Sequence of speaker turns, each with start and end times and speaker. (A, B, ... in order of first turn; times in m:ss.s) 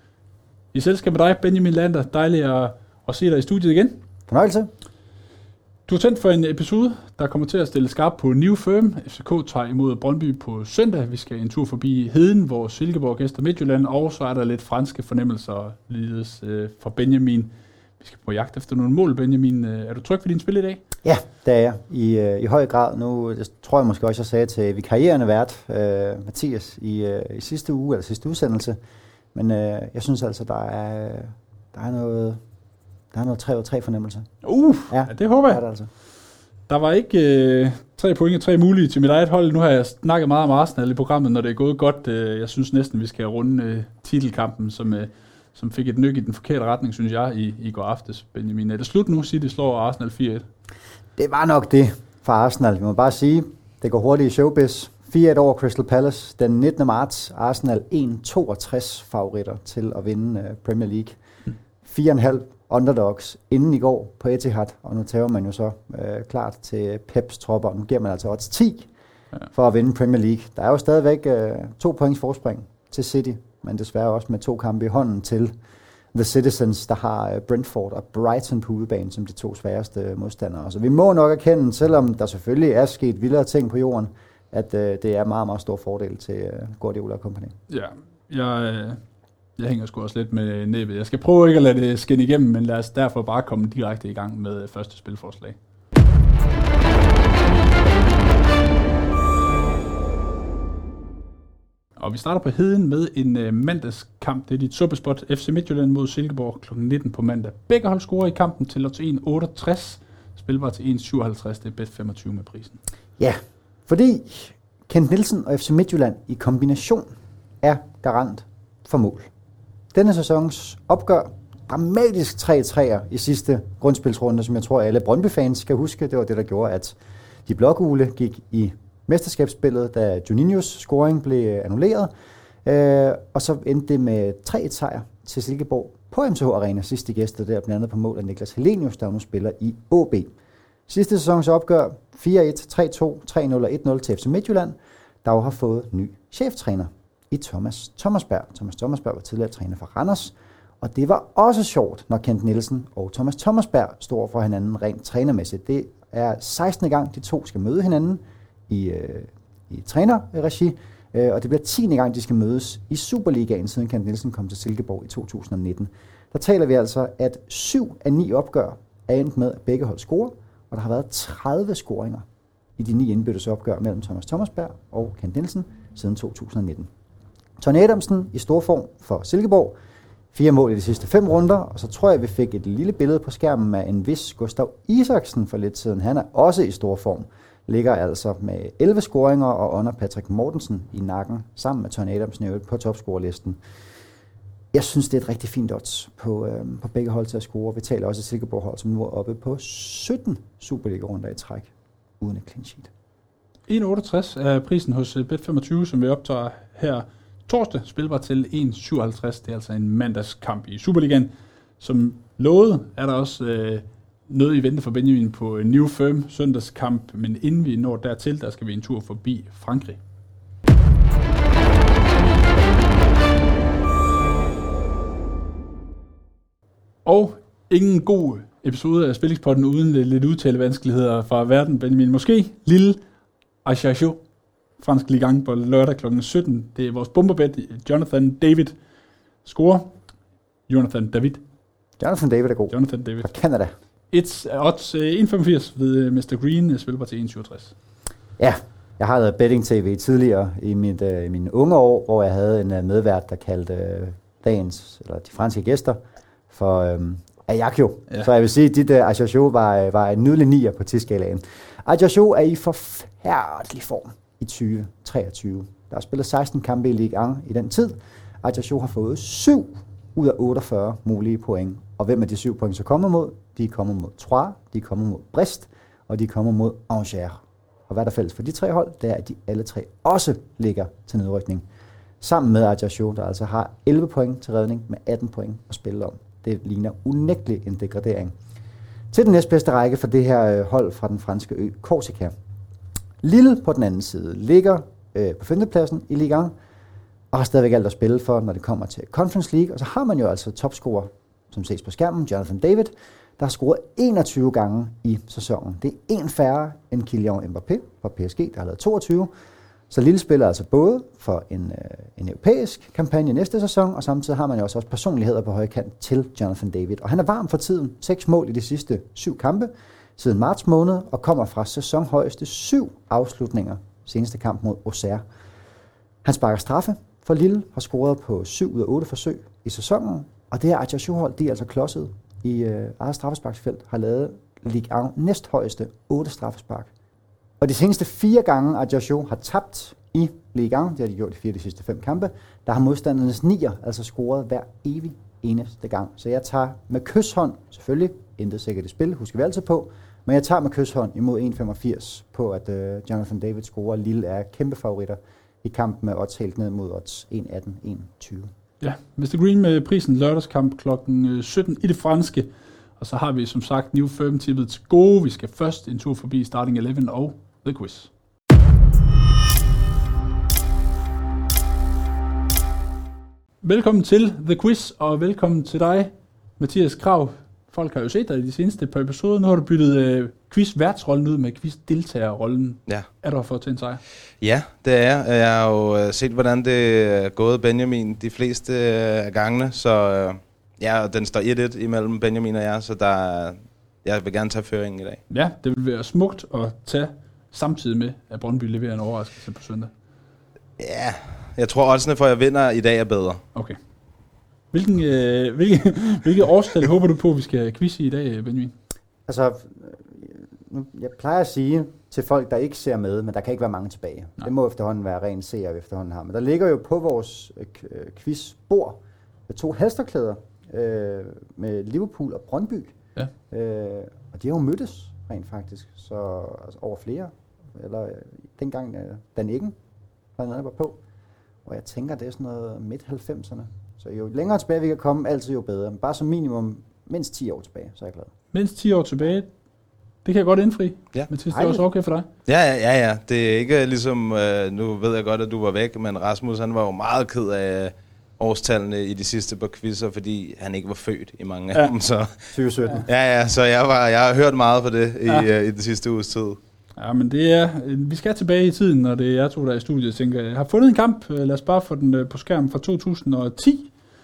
0:00.7-0:04.0 A
0:04.3-0:04.7 B
0:05.9-0:20.8 A
0:21.0-0:28.8 B
0:29.3-0:32.4 B
0:33.1-0:34.3 B
0:34.4-0:35.6 A
0:34.9-0:35.9 B
0:36.7-0:50.5 A
0:51.2-1:01.2 B
1:01.8-1:08.9 B
1:09.5-1:15.5 B
1:16.1-1:27.5 B
1:27.7-1:29.0 A
1:29.6-1:35.6 A
1:42.0-1:52.8 A
1:53.2-1:59.3 B
1:59.9-2:12.1 B
2:12.6-2:20.3 B
2:20.9-2:52.2 B
2:52.8-2:56.9 B
2:57.6-2:59.8 B
3:00.3-3:13.6 B
3:14.7-3:22.9 B
3:23.7-3:40.0 A
3:47.0-3:53.0 A
3:53.6-3:54.2 A
3:54.8-3:58.8 A
3:59.4-4:00.0 A
4:00.7-4:01.4 A
4:02.0-4:03.7 B
4:02.7-4:03.3 A
4:04.1-4:07.7 A
4:08.4-4:41.6 B
4:42.2-4:48.4 B
4:49.1-4:52.3 B
4:53.2-4:56.5 B
4:57.3-5:09.3 B
5:09.9-5:25.2 B
5:26.2-5:36.9 B
5:37.6-5:58.5 B
5:58.8-6:08.1 A
6:13.6-6:24.0 A
6:24.4-6:35.2 C
6:35.3-6:39.9 A
6:40.8-6:43.4 C
6:44.7-6:48.7 A
6:49.2-7:02.9 B
7:03.5-7:09.8 B
7:10.4-7:11.0 B
7:11.6-7:18.3 B
7:18.5-7:19.5 A
7:20.2-7:22.3 A
7:21.5-7:21.8 B
7:22.4-7:36.6 C
7:32.5-7:33.0 B
7:37.0-7:43.9 A